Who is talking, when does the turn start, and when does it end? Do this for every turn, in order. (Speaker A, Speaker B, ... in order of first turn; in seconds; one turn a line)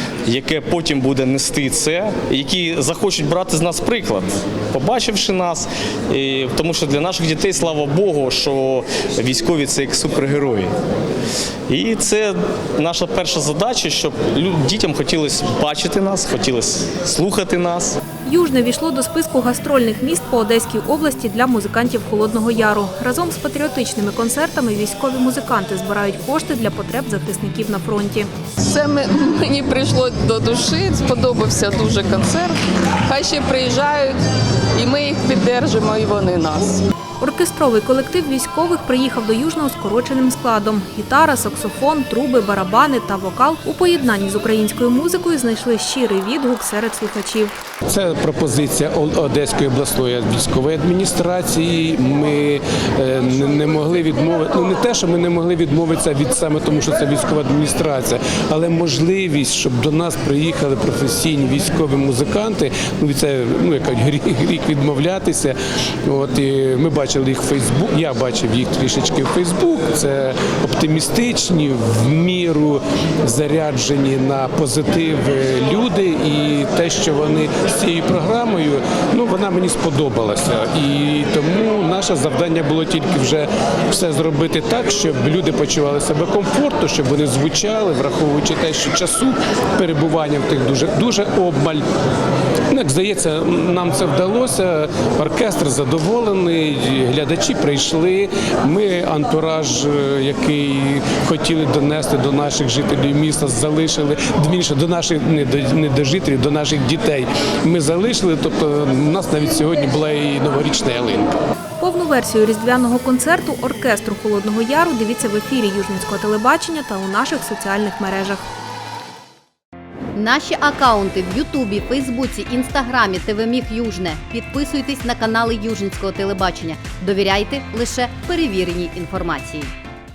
Speaker A: 0.3-10.7
Speaker A: 11.7-18.0
Speaker B: 18.2-28.3
Speaker C: 28.7-32.6
Speaker C: 33.1-34.2
Speaker C: 34.8-36.8
Speaker B: 37.2-47.6
Speaker D: 47.9-91.8
Speaker D: 92.7-111.3
Speaker B: 111.8-118.4
Speaker E: 120.2-129.7